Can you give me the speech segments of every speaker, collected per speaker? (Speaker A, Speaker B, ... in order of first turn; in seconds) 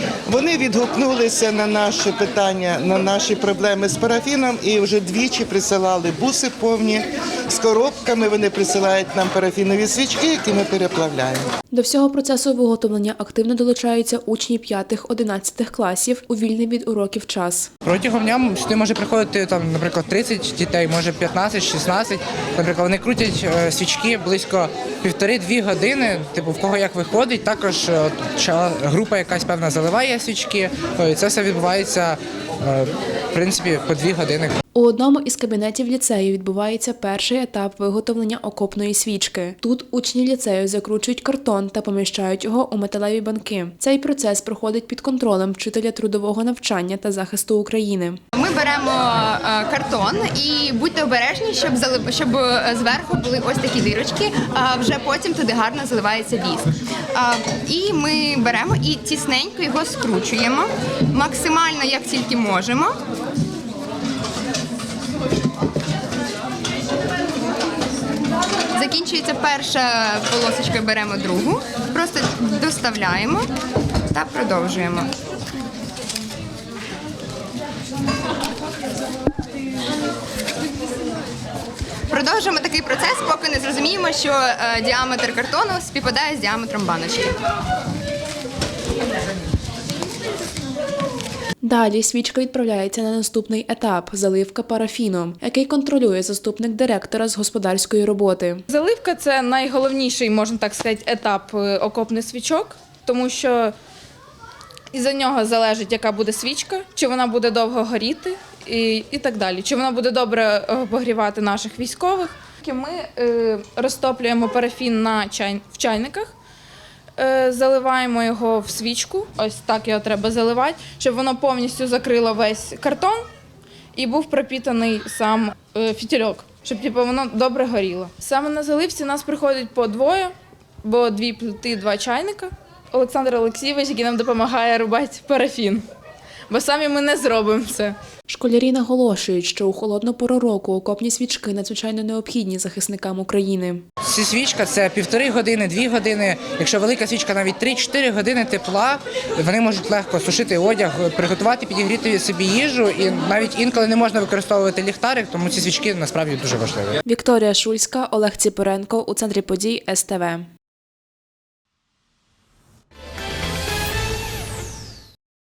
Speaker A: 0.3-11.5
Speaker B: 11.7-17.7, 34.8-48.2, 91.6-98.6, 138.3-143.8, 157.1-160.5
Speaker C: 17.9-34.5, 144.0-157.0
Speaker D: 48.4-63.0, 68.7-73.5, 74.1-75.1, 82.1-87.4
Speaker E: 98.7-103.7, 104.9-116.3, 117.2-123.2, 124.0-130.3, 130.8-135.8, 136.5-137.9